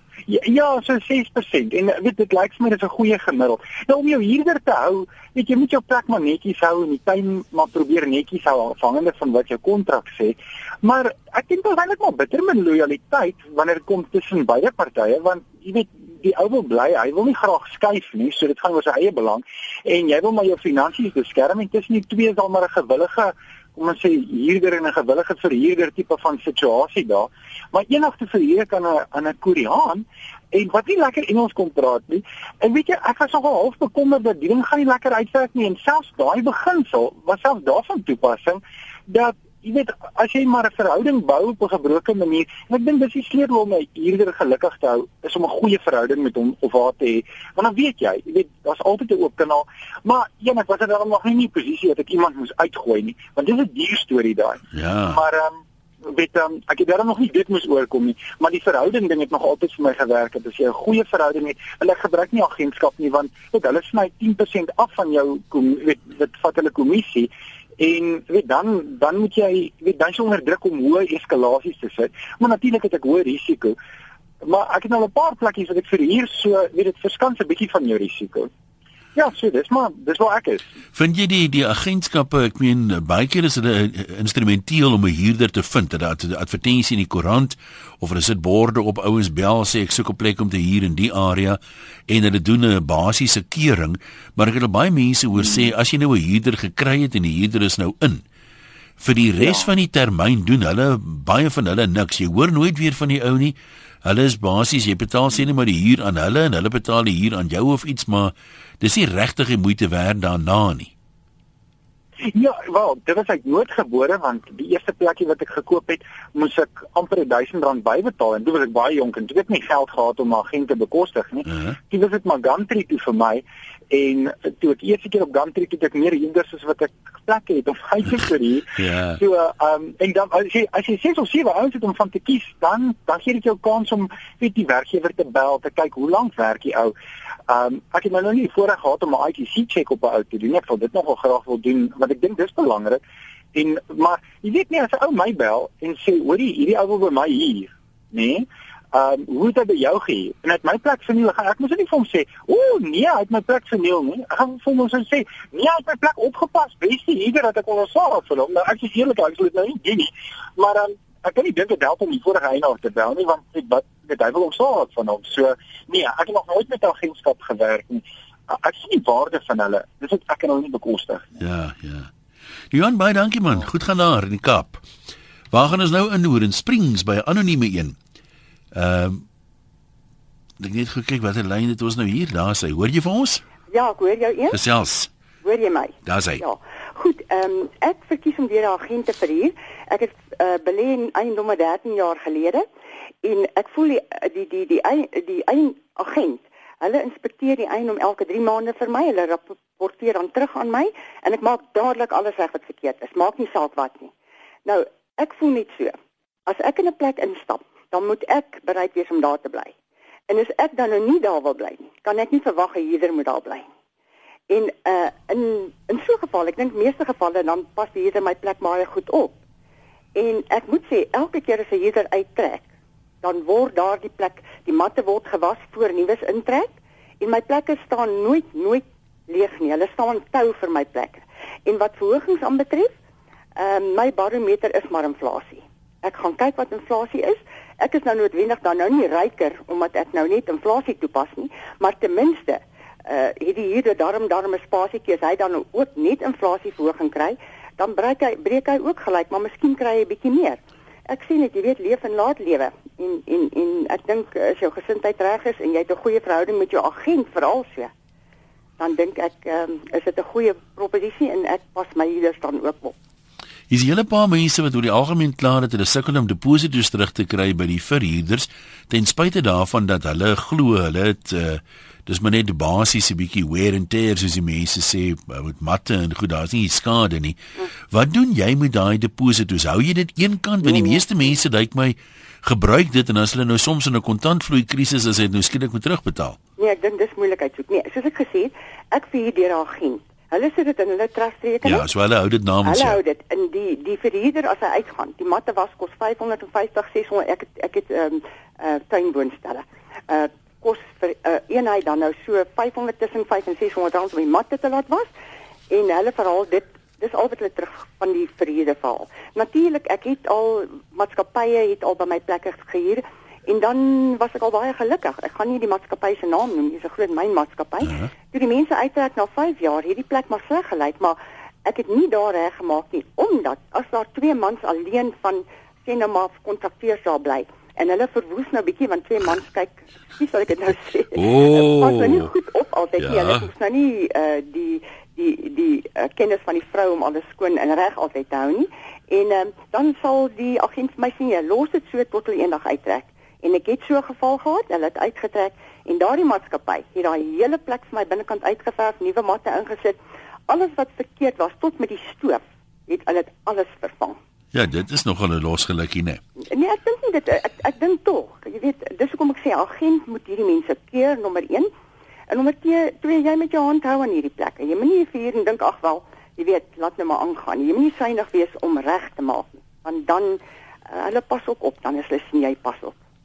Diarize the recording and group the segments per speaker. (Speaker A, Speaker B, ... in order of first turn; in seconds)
Speaker A: 0.3-55.6, 56.1-73.8, 74.4-78.5, 79.2-80.6, 112.3-136.9, 137.5-143.0, 143.5-171.3
Speaker B: 54.7-55.2, 80.9-98.2, 99.0-110.9, 121.5-121.7, 128.8-129.2, 171.4-172.1, 172.7-174.8, 175.5-177.9, 178.7-179.2, 180.6-183.4, 184.5-185.1, 186.0-186.4, 263.7-277.4, 277.9-286.4, 291.6-293.0, 317.8-318.1, 331.1-332.3, 333.0-333.5, 354.5-356.2
Speaker C: 183.7-184.6, 185.4-192.7, 193.2-204.1, 204.6-209.7, 210.3-213.7, 214.5-219.3, 220.1-222.6, 223.2-232.9, 233.6-257.9, 258.8-262.9, 286.6-291.9, 292.6-305.1, 305.7-350.0, 350.5-354.2, 356.5-361.7, 362.3-370.4, 370.9-373.0